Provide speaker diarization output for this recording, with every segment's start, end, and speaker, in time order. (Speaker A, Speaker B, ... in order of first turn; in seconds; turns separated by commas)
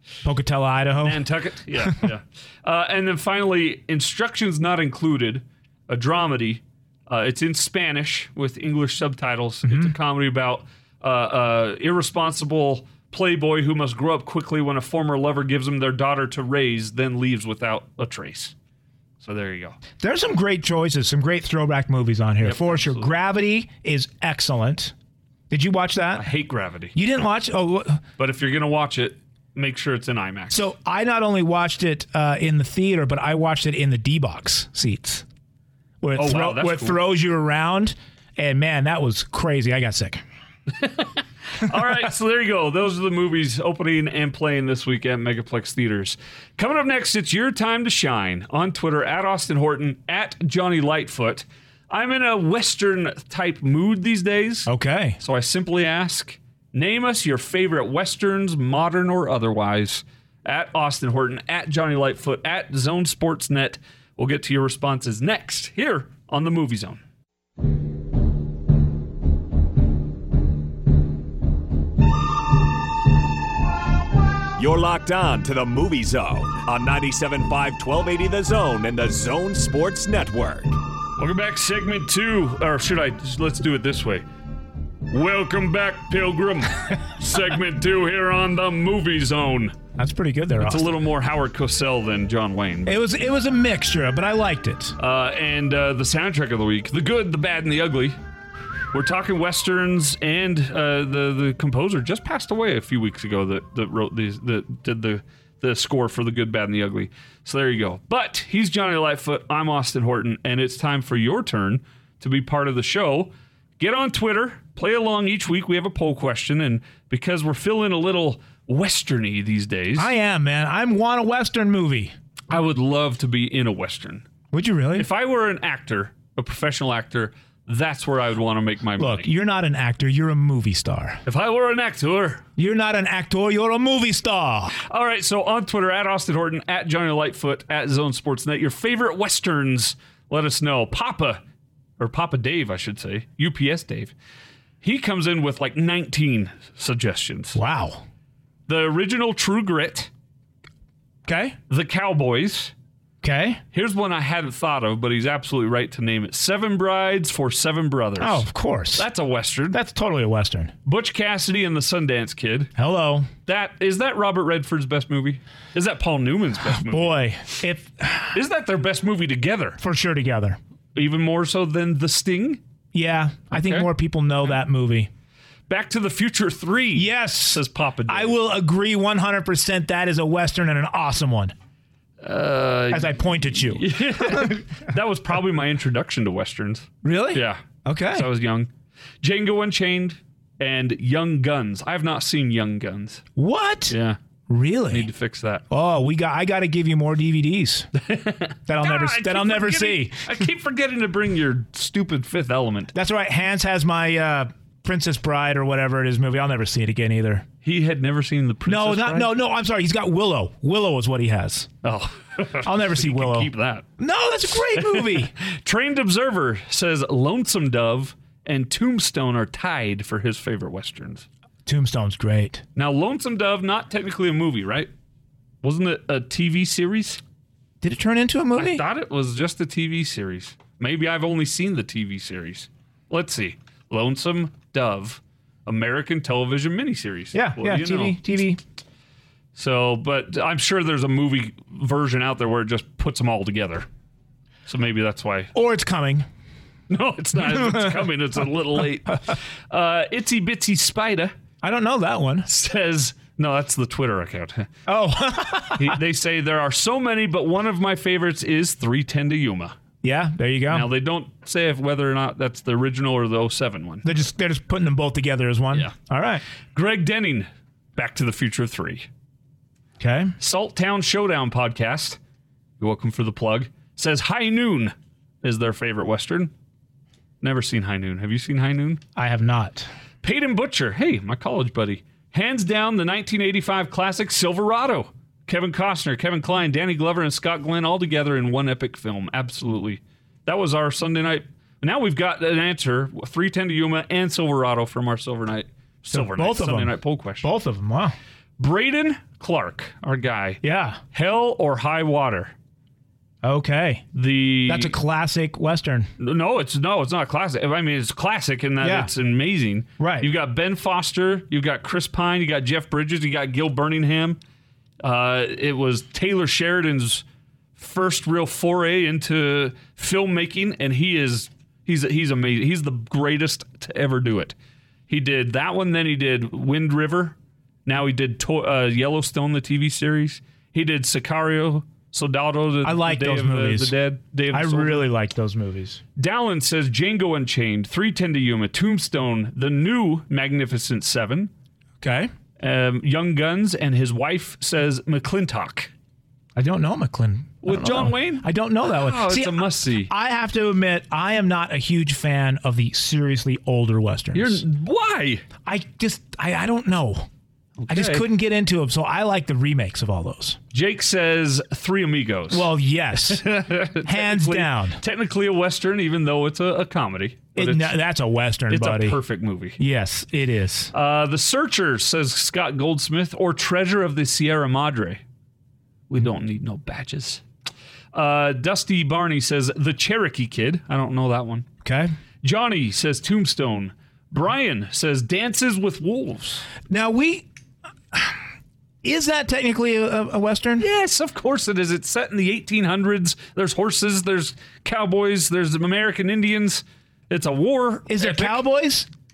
Speaker A: 0.2-1.3, Speaker B: 1.0-18.5, Speaker A: 9.7-9.9, Speaker B: 19.2-19.8, Speaker A: 20.0-24.9, Speaker B: 22.4-23.1, Speaker A: 25.5-26.2, Speaker B: 26.1-26.9, Speaker A: 26.9-28.0, Speaker B: 28.2-30.6, Speaker A: 30.5-35.2, Speaker A: 36.0-40.2, Speaker B: 36.1-37.0, Speaker B: 40.7-67.0, Speaker A: 54.7-55.2, Speaker C: 74.6-80.8, Speaker B: 81.2-84.2, Speaker B: 85.1-89.8, Speaker A: 90.0-90.9, Speaker B: 90.6-93.0, Speaker A: 92.8-94.9, Speaker B: 95.0-98.2, Speaker B: 98.9-120.1, Speaker A: 120.0-122.1, Speaker B: 122.5-124.2, Speaker A: 124.5-125.1, Speaker B: 124.9-129.3, Speaker A: 129.0-131.2, Speaker B: 131.2-132.4, Speaker A: 132.6-134.7, Speaker B: 134.7-141.4, Speaker B: 142.0-144.1, Speaker B: 144.8-147.6, Speaker A: 147.5-148.0, Speaker B: 148.7-150.1, Speaker A: 151.2-151.6, Speaker B: 151.7-152.7, Speaker A: 153.2-153.6, Speaker B: 153.7-159.8, Speaker A: 158.2-159.1, Speaker A: 159.7-160.7, Speaker B: 160.8-162.7, Speaker A: 162.8-163.3, Speaker B: 163.4-167.2, Speaker A: 166.8-168.4, Speaker B: 168.3-169.8, Speaker A: 169.8-170.6, Speaker B: 170.9-172.6, Speaker A: 172.9-175.1, Speaker B: 173.5-173.9, Speaker B: 175.7-178.4, Speaker A: 176.9-181.5, Speaker B: 182.2-187.6, Speaker A: 182.9-184.6, Speaker A: 187.0-188.3, Speaker B: 188.1-188.7, Speaker B: 189.2-193.2, Speaker A: 193.3-193.9, Speaker B: 193.9-194.2, Speaker A: 194.5-195.1, Speaker B: 194.9-195.6, Speaker A: 195.7-197.9, Speaker B: 197.9-202.9, Speaker A: 198.7-200.4, Speaker A: 202.9-207.4, Speaker B: 207.6-209.3, Speaker A: 208.7-211.7, Speaker B: 211.8-213.8, Speaker A: 212.6-215.3, Speaker B: 214.8-221.3, Speaker A: 221.7-222.6, Speaker B: 222.8-224.9, Speaker B: 225.6-227.2, Speaker A: 227.8-228.8, Speaker B: 228.6-238.2, Speaker A: 237.3-238.6, Speaker B: 239.5-243.8, Speaker B: 244.7-245.5, Speaker A: 245.5-246.2, Speaker B: 246.9-251.3, Speaker A: 247.4-248.1, Speaker A: 251.6-252.5, Speaker B: 252.4-254.7, Speaker A: 254.8-256.0, Speaker B: 255.7-259.7, Speaker A: 260.0-260.9, Speaker B: 260.7-264.1, Speaker A: 264.0-266.4, Speaker B: 266.7-269.1, Speaker A: 270.0-270.3, Speaker B: 270.4-272.2, Speaker B: 272.8-276.5, Speaker B: 277.4-279.0, Speaker A: 279.1-279.9, Speaker B: 280.2-297.5, Speaker A: 296.1-298.1, Speaker B: 298.6-300.6, Speaker A: 300.6-301.0, Speaker B: 301.1-302.5, Speaker A: 303.4-304.0, Speaker B: 304.1-304.9, Speaker A: 304.7-306.1, Speaker B: 306.2-314.4, Speaker A: 308.8-309.1, Speaker A: 310.0-310.3, Speaker B: 315.0-317.2, Speaker B: 317.8-324.5, Speaker B: 325.1-335.1, Speaker A: 332.8-333.9, Speaker A: 334.5-336.0, Speaker B: 336.1-341.5, Speaker A: 342.0-342.3, Speaker B: 342.6-345.9, Speaker A: 346.6-354.6, Speaker B: 347.6-350.1, Speaker B: 354.3-355.4, Speaker A: 355.6-357.3, Speaker B: 357.8-358.3, Speaker A: 357.9-360.6, Speaker B: 360.7-362.7, Speaker A: 362.5-363.5, Speaker B: 363.3-367.9, Speaker A: 364.0-365.0, Speaker A: 367.6-369.2, Speaker B: 368.7-369.8, Speaker A: 369.8-370.9, Speaker B: 370.9-375.2, Speaker B: 376.1-377.4, Speaker B: 378.1-381.7, Speaker A: 381.8-382.1, Speaker B: 382.4-386.7, Speaker A: 386.9-387.5, Speaker A: 388.1-388.4, Speaker A: 389.0-390.9, Speaker B: 390.8-398.6, Speaker A: 398.1-399.1